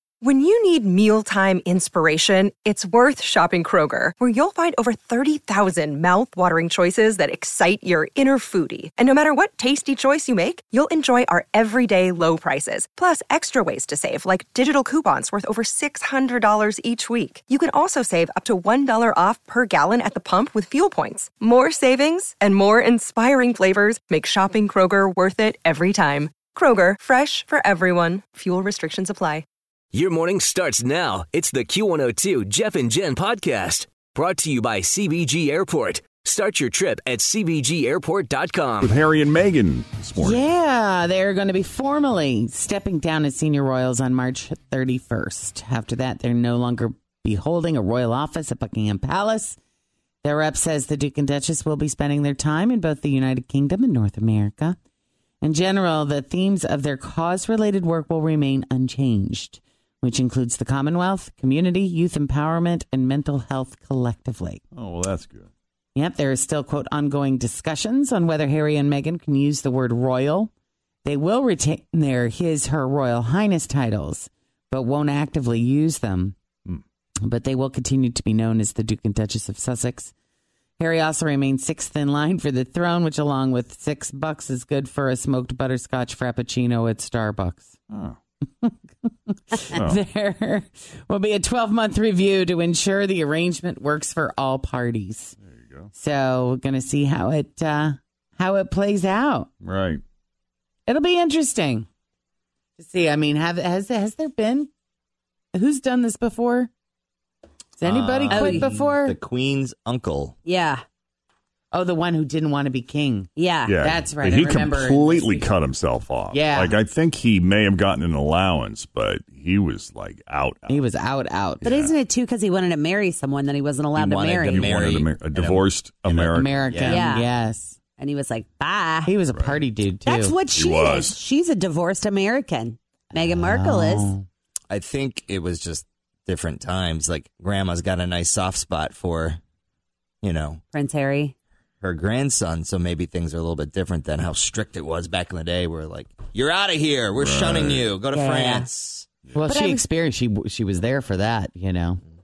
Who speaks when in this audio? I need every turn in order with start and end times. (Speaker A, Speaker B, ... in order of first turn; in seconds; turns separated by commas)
Speaker A: 0.2-29.4, Speaker B: 29.9-39.0, Speaker C: 38.8-40.4, Speaker D: 40.2-49.6, Speaker D: 50.2-54.8, Speaker D: 55.4-64.6, Speaker C: 64.7-65.5, Speaker D: 65.9-70.5, Speaker D: 71.0-76.3, Speaker D: 77.2-80.1, Speaker D: 80.8-87.8, Speaker C: 87.9-88.2, Speaker D: 89.5-95.3, Speaker C: 89.7-90.0, Speaker C: 95.6-95.9, Speaker D: 95.9-99.5, Speaker C: 99.6-100.0, Speaker D: 100.9-101.9, Speaker D: 102.8-104.7, Speaker D: 105.5-106.7, Speaker D: 107.8-109.2, Speaker E: 107.8-110.3, Speaker F: 108.3-108.7, Speaker F: 110.4-110.8, Speaker D: 111.7-115.5, Speaker F: 113.3-113.8, Speaker C: 113.7-120.8, Speaker D: 116.3-116.8, Speaker D: 120.7-121.6, Speaker C: 121.6-121.9, Speaker F: 121.6-124.8, Speaker E: 123.9-127.0, Speaker C: 124.5-126.8, Speaker D: 126.3-127.8, Speaker F: 126.9-127.3, Speaker F: 128.0-129.1, Speaker D: 129.0-130.4, Speaker C: 129.3-129.6, Speaker F: 130.1-134.1, Speaker C: 130.5-131.2, Speaker D: 133.2-134.2, Speaker E: 134.7-139.4, Speaker E: 140.2-140.6, Speaker F: 140.7-141.3, Speaker E: 141.8-149.1, Speaker C: 147.2-147.9, Speaker F: 148.1-148.7, Speaker D: 149.3-152.0, Speaker F: 149.5-149.8